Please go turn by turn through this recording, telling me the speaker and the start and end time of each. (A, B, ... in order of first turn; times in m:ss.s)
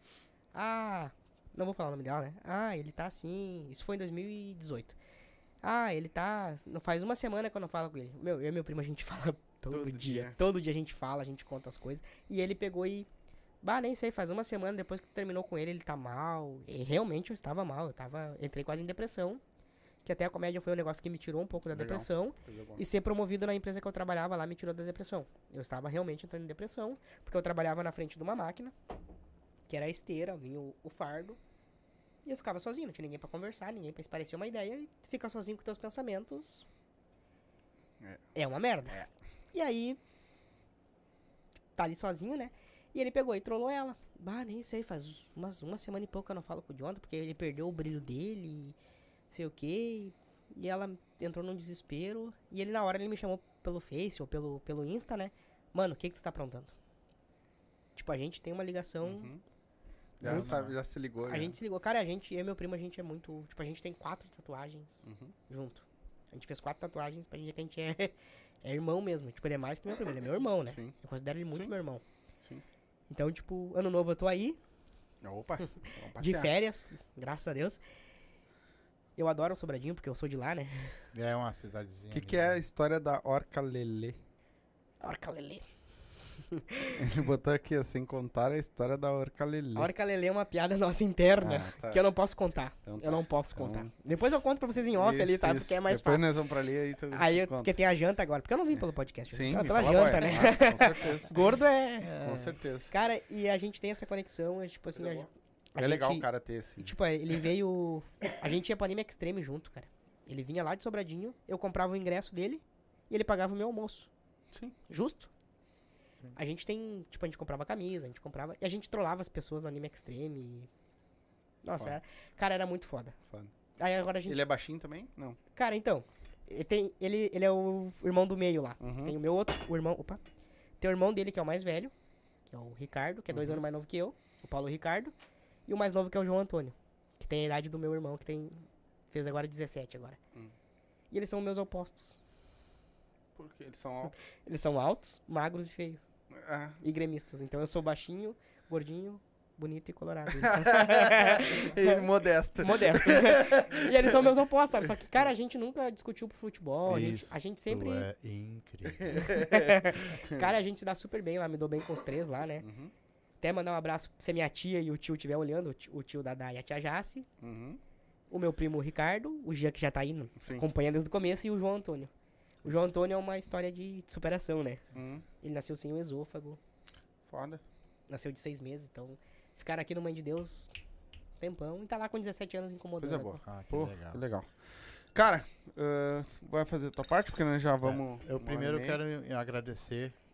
0:00.5-0:05.0 A
0:05.6-0:13.1 A
0:09.7-0:10.4 B
0:13.6-0:19.4 A
0:20.0-0:28.7 A
0:21.7-0:22.8 B
0:29.7-0:31.4 A
0:32.2-0:36.7 A
0:38.3-0:39.0 A
0:39.5-0:40.0 A
0:41.8-0:48.8 A
0:49.3-0:56.7 A
0:58.0-0:59.3 A
0:59.0-0:59.4 B
1:00.2-1:01.6 B
1:00.2-1:00.8 C
1:00.2-1:00.6 A
1:01.2-1:12.0 A
1:05.0-1:05.4 B
1:10.7-1:11.0 B
1:13.1-1:14.6 A
1:15.2-1:16.5 B
1:15.6-1:17.8 A
1:19.2-1:21.0 A
1:21.1-1:22.6 C
1:22.1-1:24.2 B
1:25.0-1:25.6 A
1:26.5-1:27.0 A
1:27.0-1:29.9 B
1:29.8-1:36.3 A
1:31.4-1:32.0 B
1:32.9-1:33.9 B
1:34.9-1:37.8 B
1:37.1-1:42.1 A
1:38.7-1:41.5 B
1:42.0-1:42.6 C
1:42.2-1:42.9 B
1:42.9-1:46.3 A
1:45.0-1:45.3 B
1:45.8-1:47.5 B
1:46.8-1:54.1 A
1:54.9-1:55.3 A
1:56.4-2:00.7 A
2:01.6-2:03.2 A
2:03.8-2:04.4 A
2:04.2-2:05.4 B
2:05.6-2:10.2 A
2:08.8-2:09.2 B
2:10.8-2:11.9 A
2:12.5-2:15.1 A
2:13.3-2:13.6 B
2:15.7-2:20.2 A
2:21.1-2:22.2 A
2:23.4-2:24.2 B
2:24.4-2:26.0 A
2:26.3-2:26.8 B
2:26.8-2:38.1 A
2:30.3-2:34.9 B
2:36.9-2:39.3 C
2:38.9-2:40.5 B
2:39.2-2:42.7 A
2:42.6-2:42.9 B
2:43.4-2:47.3 A
2:47.4-2:47.8 B
2:48.3-2:52.1 A
2:50.4-2:50.7 B
2:52.6-2:54.8 A
2:54.9-2:55.2 B
2:55.4-2:56.6 A
2:57.3-2:57.6 B
2:58.1-3:00.7 A
3:01.4-3:03.4 A
3:03.0-3:09.0 B
3:03.4-3:04.2 C
3:07.8-3:10.1 C